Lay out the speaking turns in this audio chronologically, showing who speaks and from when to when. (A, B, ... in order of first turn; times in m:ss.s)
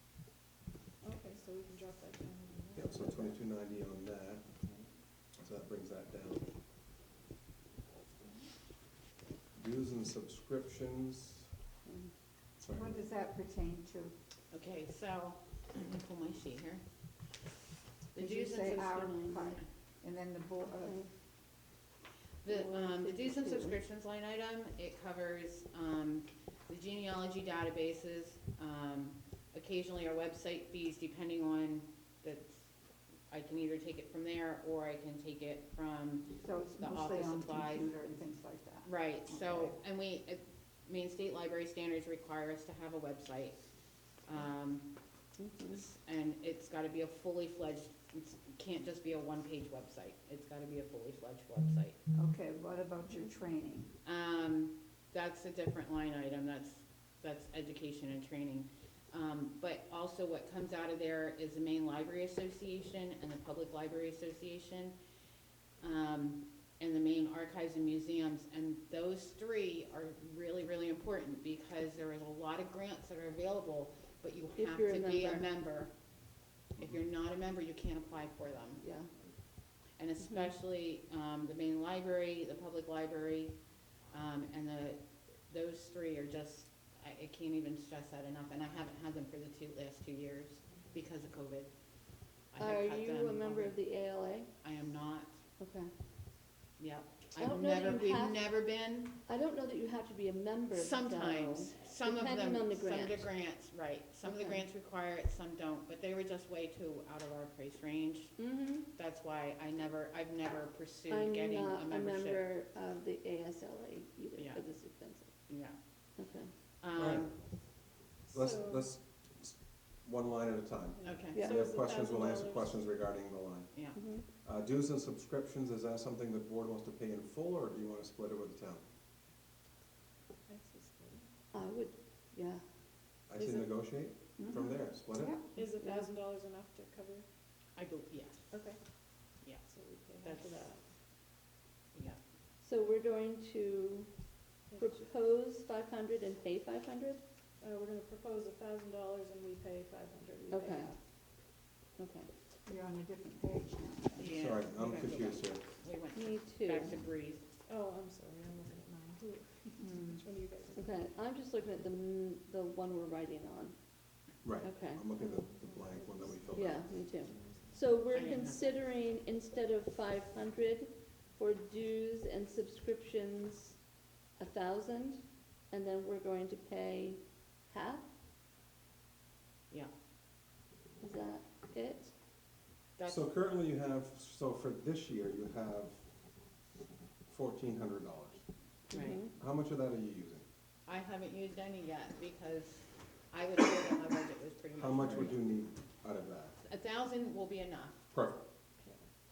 0:01.0-0:03.3 A
0:02.8-0:04.4 B
0:05.4-0:06.4 B
0:09.6-0:11.4 B
0:11.9-0:12.1 C
0:12.6-0:13.0 B
0:12.7-0:14.2 D
0:14.5-0:16.8 E
0:18.1-0:18.9 E
0:18.2-0:21.0 D
0:18.4-0:19.6 C
0:20.8-0:21.1 C
0:22.4-0:32.6 E
0:22.5-0:23.8 C
0:33.3-0:37.9 E
0:36.4-0:39.8 D
0:38.8-0:43.6 E
0:44.2-0:44.9 E
0:45.4-0:45.8 C
0:45.7-0:52.0 E
0:52.2-0:53.9 D
0:54.0-1:05.0 E
1:05.8-1:15.9 E
1:14.6-1:15.5 C
1:16.8-1:18.8 E
1:18.8-1:19.1 C
1:20.0-1:23.6 E
1:24.1-1:31.7 E
1:32.5-1:33.8 E
1:32.6-1:34.5 C
1:34.6-1:35.3 E
1:35.6-1:35.9 C
1:36.8-1:39.2 E
1:37.4-1:38.4 C
1:39.3-1:43.3 C
1:40.7-1:52.4 E
1:44.2-1:44.6 C
1:48.4-1:48.9 C
1:51.1-1:55.4 C
1:54.4-1:54.6 E
1:55.5-1:55.8 E
1:56.2-1:56.5 C
1:56.8-1:57.4 E
1:57.0-1:57.3 B
1:58.3-1:58.9 A
1:58.3-2:03.7 B
2:01.0-2:02.8 A
2:01.0-2:01.4 E
2:03.7-2:04.0 E
2:04.0-2:04.3 C
2:04.4-2:08.8 B
2:10.5-2:11.3 A
2:11.5-2:12.6 C
2:13.3-2:15.4 B
2:13.4-2:13.9 A
2:14.4-2:15.5 D
2:15.6-2:17.3 A
2:15.8-2:16.1 C
2:17.8-2:18.5 E
2:18.5-2:18.8 A
2:19.6-2:20.8 A
2:20.2-2:20.7 E
2:21.9-2:22.2 E
2:22.6-2:24.1 C
2:24.7-2:25.1 A
2:24.8-2:27.2 C
2:27.6-2:31.0 A
2:30.5-2:30.9 C
2:32.0-2:32.3 C
2:32.7-2:34.4 D
2:34.2-2:37.5 E
2:34.2-2:35.6 B
2:36.1-2:37.0 C
2:37.7-2:40.9 A
2:39.8-2:40.2 D
2:40.8-2:43.8 C
2:44.4-2:46.9 B
2:44.6-2:45.1 C
2:45.2-2:46.7 A
2:46.5-2:53.8 C
2:47.2-2:47.8 A
2:48.1-2:48.8 E
2:54.4-2:58.1 C
3:01.0-3:02.1 C
3:03.0-3:03.3 E
3:03.1-3:06.0 B
3:07.3-3:08.4 B
3:08.9-3:09.2 E
3:08.9-3:09.3 C
3:09.2-3:10.4 B
3:10.9-3:15.4 E
3:14.8-3:16.6 B
3:16.6-3:18.0 E
3:18.1-3:18.4 B
3:18.8-3:19.0 A